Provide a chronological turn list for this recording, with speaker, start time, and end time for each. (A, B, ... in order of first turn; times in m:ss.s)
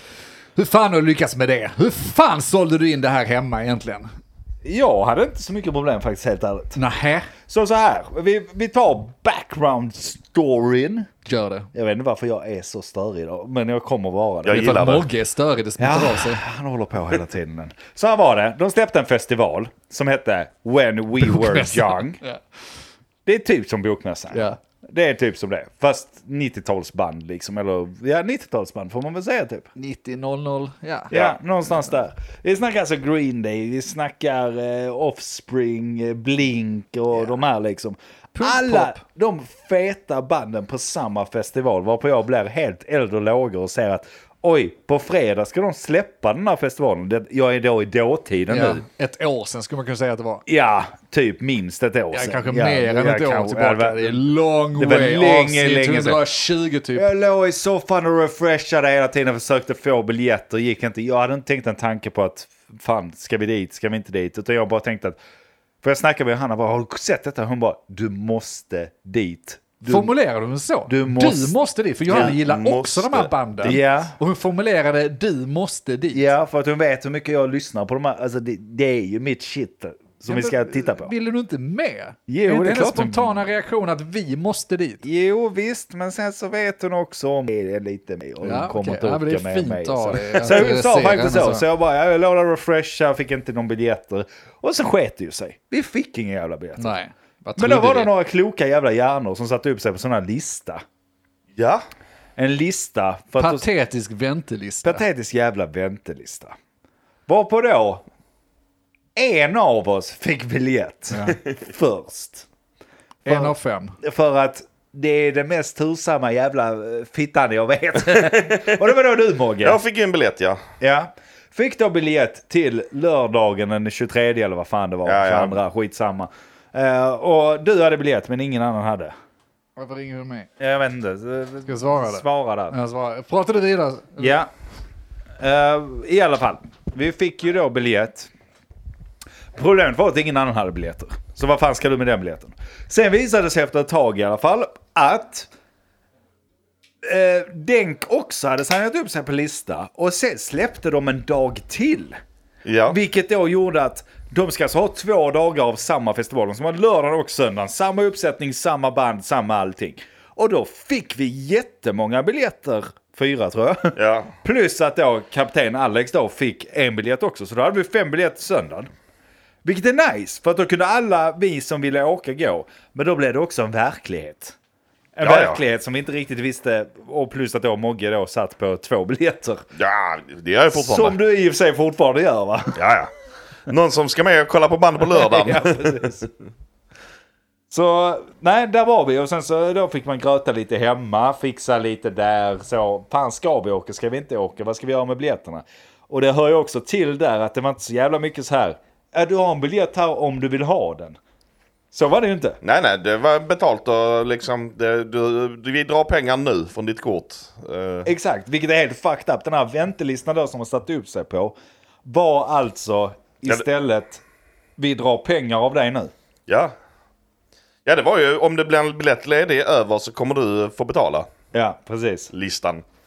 0:00.6-0:04.1 A
0:04.6-0:06.8 B
0:06.8-0:07.3 A
0:07.5-0:11.1 B
0:11.3-0:11.7 A
0:11.7-0:14.8 B
0:14.4-0:15.1 C
0:14.5-0:16.4 A
0:15.8-0:22.2 B
0:21.2-0:22.4 A
0:23.2-0:29.7 B
0:24.3-0:24.6 A
0:29.8-0:31.1 A
0:31.1-0:31.4 C
0:31.1-0:48.8 B
0:38.4-0:39.0 A
0:48.5-0:50.4 A
0:50.5-0:54.2 B
0:52.1-0:57.1 A
0:54.8-0:56.2 B
0:57.0-1:05.2 B
1:05.8-1:10.1 B
1:09.8-1:16.3 A
1:10.9-1:11.6 B
1:12.1-1:13.8 C
1:13.6-1:14.2 B
1:16.1-1:21.1 B
1:20.3-1:25.0 A
1:22.3-1:23.4 B
1:25.0-1:36.9 B
1:28.4-1:31.6 A
1:36.8-1:38.1 A
1:37.6-1:40.8 B
1:41.6-1:41.8 C
1:42.4-1:43.7 B
1:43.4-1:45.0 A
1:44.8-1:46.6 B
1:47.3-1:48.0 B
1:49.2-1:52.5 B
1:53.2-1:54.0 A
1:53.3-1:59.8 B
1:58.2-1:58.8 C
1:59.6-2:00.6 C
2:00.8-2:09.1 B
2:05.1-2:05.6 C
2:09.8-2:10.5 A
2:10.6-2:12.8 B
2:11.7-2:14.4 A
2:14.2-2:14.5 B
2:15.4-2:18.3 B
2:19.5-2:25.5 B
2:27.0-2:32.2 B
2:32.6-2:33.0 C
2:32.9-2:48.9 B
2:44.0-2:44.3 C
2:49.6-2:54.6 B
2:55.2-2:59.7 B
2:55.2-2:55.6 C
2:59.8-3:01.2 C
3:00.7-3:02.8 B
3:02.8-3:03.1 C
3:03.7-3:06.1 C
3:05.0-3:06.3 B
3:07.7-3:21.2 B
3:21.9-3:22.6 B
3:22.6-3:28.1 C
3:28.0-3:34.2 B
3:34.8-3:36.1 B
3:36.5-3:36.7 C
3:37.9-3:41.3 C
3:41.5-3:42.3 B
3:42.3-3:42.8 C